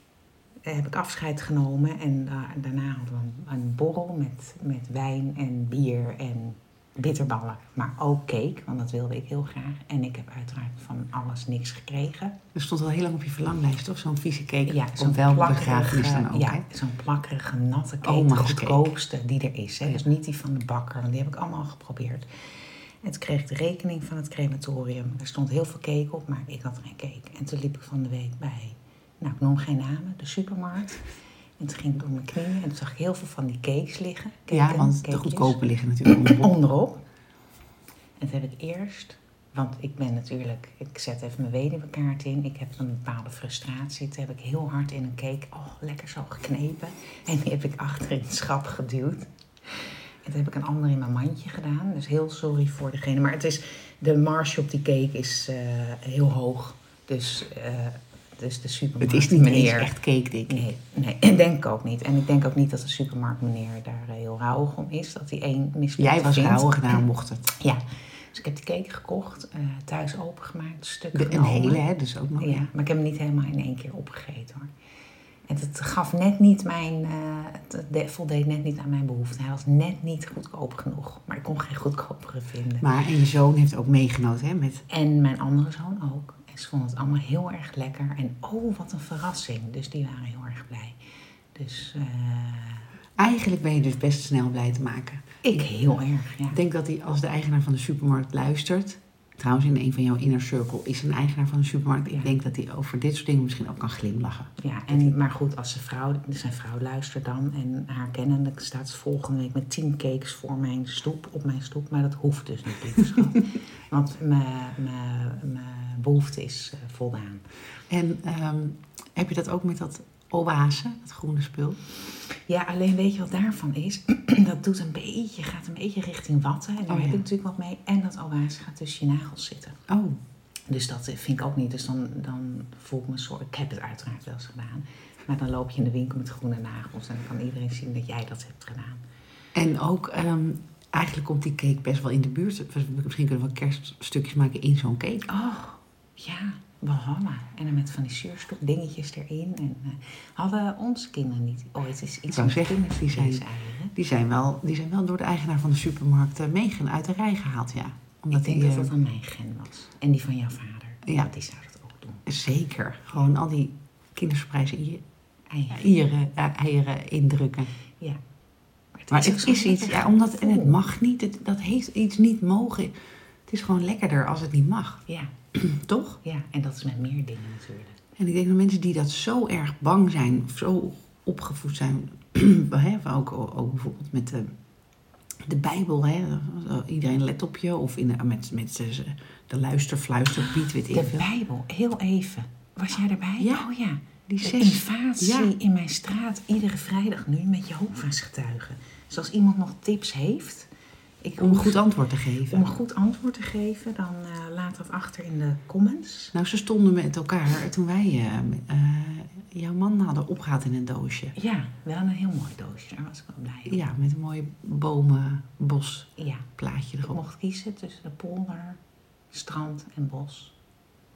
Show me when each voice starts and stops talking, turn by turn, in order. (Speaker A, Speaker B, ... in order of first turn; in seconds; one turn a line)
Speaker A: 0.6-12.4
Speaker B: 12.5-16.6
Speaker A: 14.7-22.3
Speaker B: 18.0-18.9
Speaker A: 23.0-31.1
Speaker A: 31.6-37.0
Speaker B: 34.5-36.5
Speaker A: 38.2-59.9
Speaker B: 59.0-60.7
Speaker A: 60.5-71.8
Speaker B: 66.0-67.5
Speaker B: 71.1-72.7
Speaker A: 72.4-74.7
Speaker A: 75.5-82.9
Speaker B: 82.8-84.8
Speaker A: 84.9-91.0
Speaker A: 91.5-92.9
Speaker B: 93.2-95.8
Speaker A: 95.4-96.6
Speaker B: 96.5-105.1
Speaker A: 104.6-117.5
Speaker B: 117.9-121.8
Speaker A: 122.5-129.8
Speaker B: 126.9-127.2
Speaker B: 129.9-130.2
Speaker A: 130.7-139.0
Speaker B: 139.5-145.3
Speaker A: 145.3-153.9
Speaker B: 152.3-158.9
Speaker A: 158.3-162.2
Speaker B: 162.2-165.0
Speaker A: 165.5-165.9
Speaker B: 165.7-167.7
Speaker A: 168.9-170.8
Speaker B: 169.1-172.9
Speaker B: 173.5-176.2
Speaker A: 176.2-178.0
Speaker B: 178.2-184.5
Speaker B: 185.4-191.3
Speaker A: 190.4-200.7
Speaker B: 193.4-193.7
Speaker B: 194.3-195.5
Speaker A: 201.2-201.8
Speaker B: 201.4-202.7
Speaker A: 202.5-206.3
Speaker B: 206.3-211.3
Speaker A: 211.3-213.8
Speaker B: 213.7-217.2
Speaker A: 216.2-216.5
Speaker A: 217.1-218.8
Speaker A: 219.3-220.5